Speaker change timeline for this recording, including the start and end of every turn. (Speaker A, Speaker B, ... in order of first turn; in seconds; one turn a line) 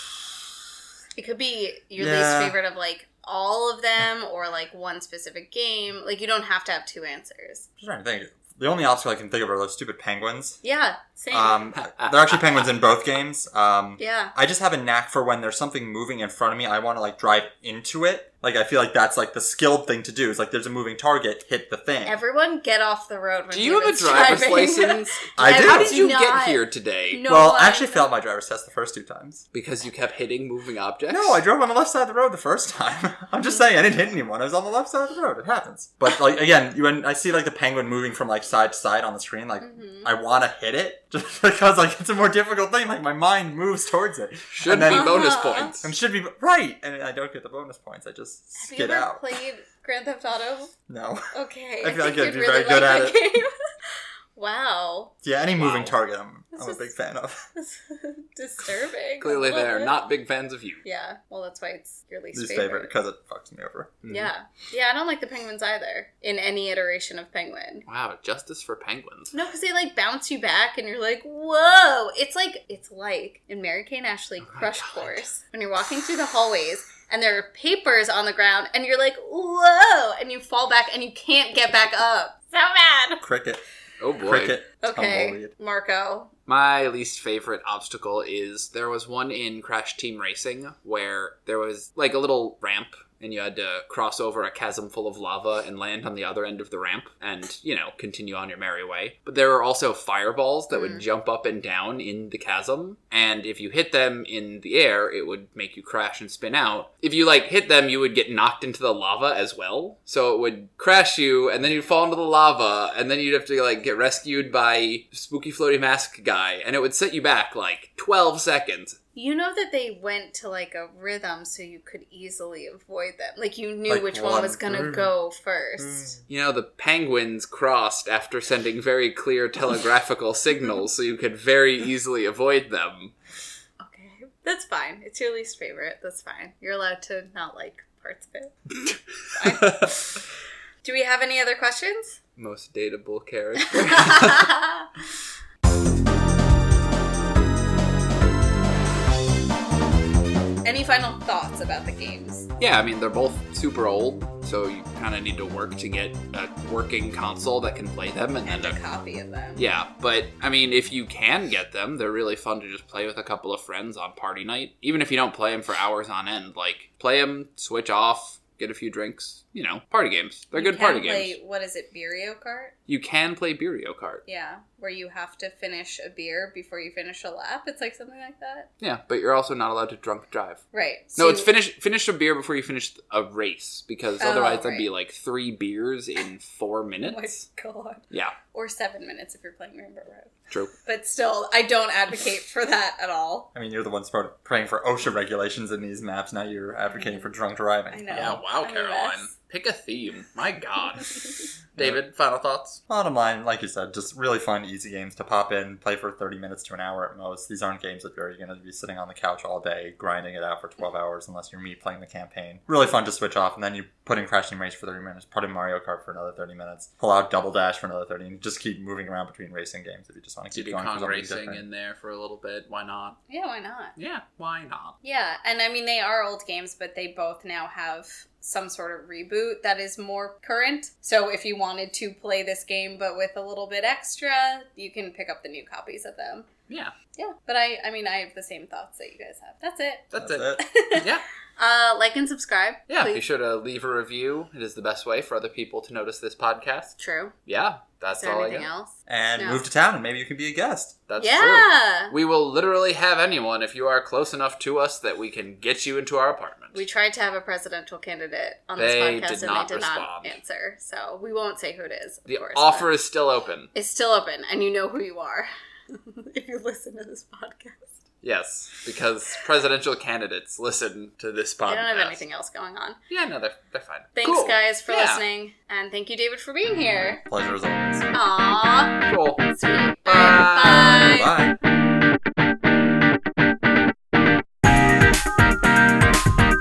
Speaker A: 1.1-7.7
Speaker B: 2.0-2.6
Speaker B: 7.8-10.6
Speaker A: 10.6-11.8
Speaker B: 11.3-22.2
Speaker C: 11.8-12.7
Speaker A: 14.0-14.3
Speaker A: 22.1-28.1
Speaker C: 23.5-27.2
Speaker B: 25.4-26.0
Speaker B: 27.2-29.4
Speaker C: 29.5-31.4
Speaker B: 31.1-49.2
Speaker A: 39.6-40.1
Speaker C: 44.5-45.9
Speaker A: 44.9-45.8
Speaker A: 48.6-50.7
Speaker B: 50.9-53.2
Speaker A: 51.3-53.5
Speaker A: 54.4-55.2
Speaker B: 55.2-57.5
Speaker C: 55.6-55.9
Speaker A: 56.5-56.9
Speaker A: 57.5-60.0
Speaker C: 59.2-60.8
Speaker A: 60.8-62.9
Speaker B: 62.3-64.0
Speaker C: 64.0-64.3
Speaker A: 64.1-67.8
Speaker C: 67.9-69.3
Speaker A: 69.3-83.2
Speaker C: 74.4-75.3
Speaker B: 83.2-83.6
Speaker C: 84.0-84.6
Speaker B: 84.2-85.5
Speaker A: 84.8-86.3
Speaker C: 86.5-119.0
Speaker A: 100.7-101.0
Speaker A: 119.2-126.2
Speaker B: 123.9-125.1
Speaker B: 125.8-126.2
Speaker C: 126.3-133.1
Speaker A: 133.8-138.6
Speaker A: 139.3-140.2
Speaker C: 139.5-139.9
Speaker A: 140.8-142.2
Speaker C: 142.4-144.6
Speaker A: 143.9-144.9
Speaker A: 150.7-152.5
Speaker C: 152.6-158.8
Speaker A: 158.4-159.7
Speaker C: 159.6-171.4
Speaker A: 170.5-172.8
Speaker C: 172.9-174.2
Speaker A: 174.3-178.7
Speaker C: 178.8-180.6
Speaker A: 180.7-181.5
Speaker C: 181.2-187.4
Speaker A: 184.2-184.9
Speaker A: 187.0-190.3
Speaker A: 190.8-193.5
Speaker B: 193.6-198.4
Speaker A: 197.9-199.3
Speaker C: 198.1-202.8
Speaker B: 202.9-221.6
Speaker C: 220.5-223.2
Speaker A: 223.3-223.9
Speaker C: 224.0-224.9
Speaker A: 225.0-236.5
Speaker C: 236.7-236.9
Speaker A: 237.2-243.2
Speaker C: 240.1-241.2
Speaker B: 240.2-240.6
Speaker C: 242.9-246.9
Speaker A: 247.0-247.3
Speaker C: 247.5-248.7
Speaker A: 248.1-249.6
Speaker B: 249.1-251.0
Speaker C: 251.1-256.8
Speaker A: 251.2-252.2
Speaker A: 256.7-262.9
Speaker C: 258.8-260.4
Speaker C: 262.3-263.7
Speaker A: 263.7-268.0
Speaker C: 268.2-272.2
Speaker A: 271.7-273.0
Speaker C: 273.1-275.2
Speaker A: 274.2-277.2
Speaker B: 277.3-278.1
Speaker A: 278.1-279.0
Speaker C: 279.1-279.5
Speaker A: 279.5-281.3
Speaker C: 280.1-281.1
Speaker B: 281.1-281.6